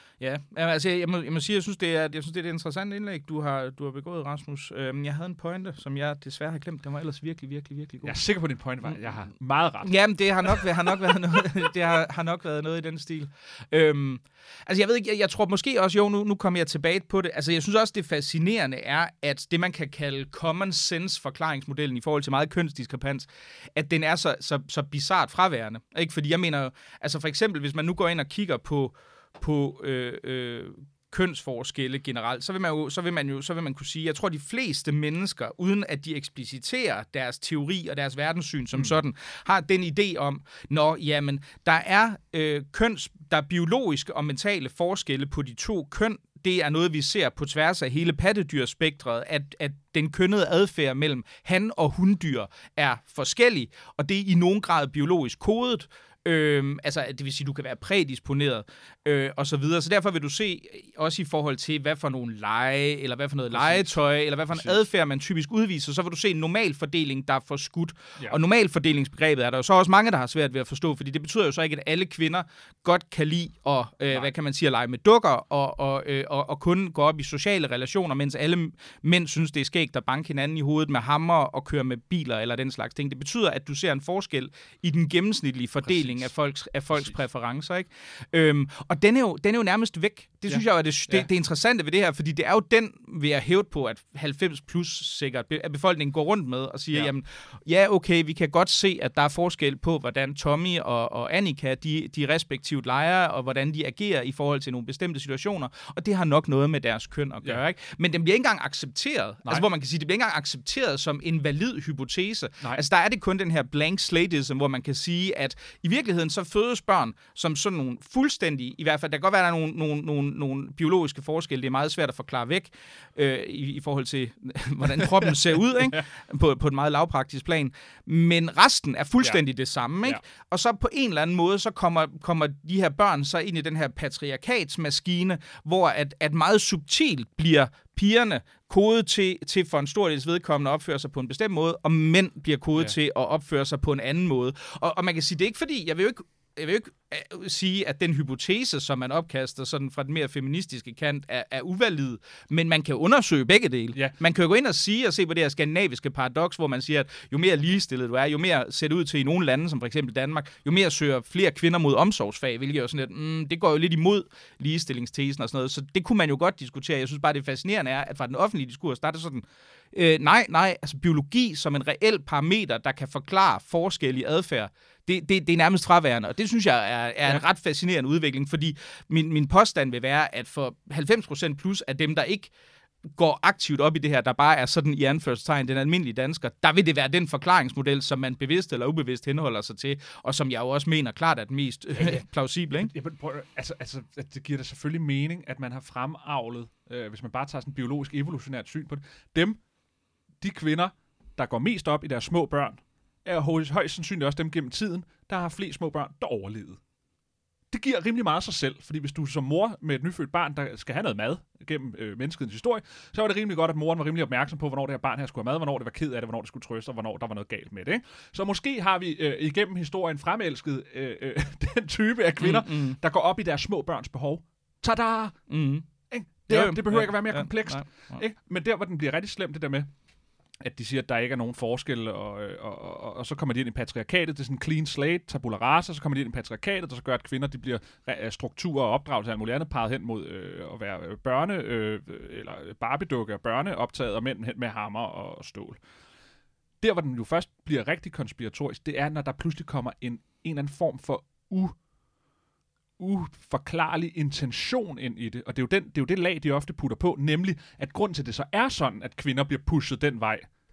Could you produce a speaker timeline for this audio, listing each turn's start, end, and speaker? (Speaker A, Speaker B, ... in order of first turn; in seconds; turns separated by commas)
Speaker A: 0.2-8.2, Speaker B: 8.0-10.7, Speaker A: 9.8-182.5, Speaker B: 63.5-63.9, Speaker B: 64.5-64.8, Speaker B: 85.8-86.3, Speaker B: 90.5-91.3, Speaker B: 125.3-126.0, Speaker A: 183.2-192.9, Speaker B: 191.9-192.2, Speaker B: 192.8-199.6, Speaker B: 200.4-206.8, Speaker B: 207.7-225.4, Speaker A: 222.4-223.0, Speaker A: 225.5-225.8, Speaker B: 226.1-229.9, Speaker A: 226.5-228.2, Speaker B: 230.6-245.8, Speaker B: 246.8-251.8, Speaker B: 253.0-260.5